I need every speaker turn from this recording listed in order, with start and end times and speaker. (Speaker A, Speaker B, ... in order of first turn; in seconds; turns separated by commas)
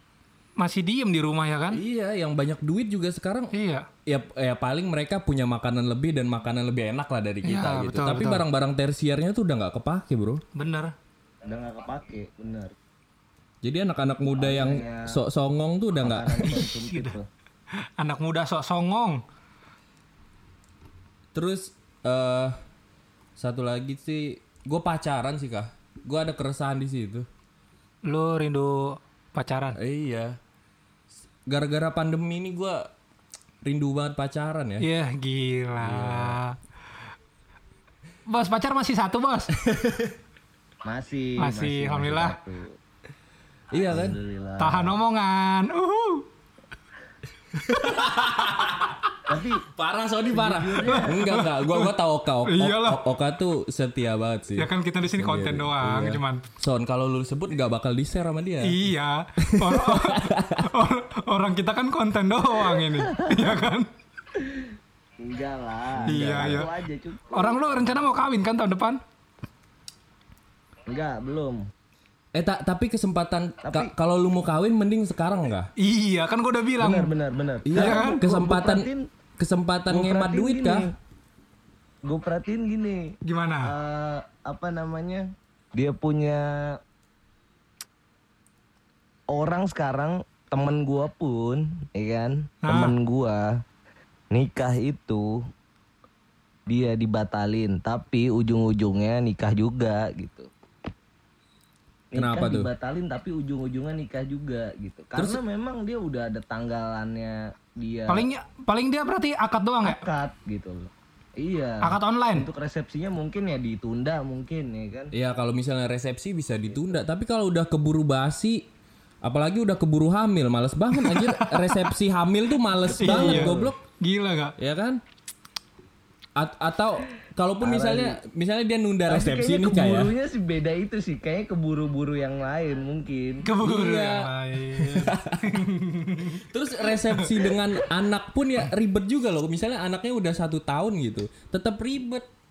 Speaker A: 0.6-1.8, Speaker B: 1.7-3.5, Speaker A: 3.5-3.9, Speaker B: 4.1-10.4, Speaker A: 7.4-8.4, Speaker A: 10.6-10.9, Speaker C: 11.5-12.7, Speaker B: 13.6-16.6, Speaker C: 14.4-15.2, Speaker C: 16.0-17.3, Speaker A: 16.4-17.1, Speaker A: 17.8-19.2, Speaker B: 21.3-22.6, Speaker B: 23.4-27.3, Speaker A: 28.1-29.8, Speaker B: 29.8-30.4, Speaker B: 31.5-32.9, Speaker B: 33.6-34.9, Speaker A: 34.8-36.5, Speaker B: 35.8-36.4, Speaker A: 38.3-39.5, Speaker B: 39.6-40.1, Speaker C: 40.9-42.8, Speaker A: 41.4-42.4, Speaker B: 43.7-44.2, Speaker C: 43.8-45.0, Speaker A: 44.6-46.3, Speaker A: 47.7-48.9, Speaker B: 47.7-49.0, Speaker C: 49.3-49.6, Speaker B: 49.7-58.8, Speaker C: 50.3-51.2, Speaker A: 50.8-51.9, Speaker A: 52.5-53.0, Speaker A: 54.6-56.4, Speaker A: 58.6-63.9, Speaker B: 59.4-60.7, Speaker C: 64.4-67.6, Speaker B: 66.0-66.6, Speaker A: 66.1-66.7, Speaker A: 67.3-69.0, Speaker C: 70.9-71.7, Speaker B: 72.3-75.7, Speaker C: 73.6-73.9, Speaker A: 75.8-77.1, Speaker C: 76.8-79.0, Speaker B: 77.7-78.9, Speaker A: 77.7-78.5, Speaker B: 79.4-80.9, Speaker C: 79.9-80.9, Speaker C: 82.1-86.8, Speaker A: 83.2-83.7, Speaker C: 89.3-93.6, Speaker A: 92.6-93.0, Speaker C: 94.3-95.4, Speaker C: 96.7-100.5, Speaker C: 102.1-108.3, Speaker B: 102.2-102.7, Speaker B: 105.2-105.4, Speaker A: 108.1-110.1, Speaker C: 109.8-115.1, Speaker A: 111.8-112.5, Speaker B: 115.1-118.6, Speaker B: 119.2-123.8, Speaker A: 121.0-121.9, Speaker C: 122.9-123.7, Speaker A: 123.0-124.5, Speaker B: 124.6-125.0, Speaker B: 126.4-130.1, Speaker C: 127.6-128.2, Speaker C: 129.1-133.4, Speaker A: 133.4-137.6, Speaker B: 133.6-135.6, Speaker B: 136.2-142.3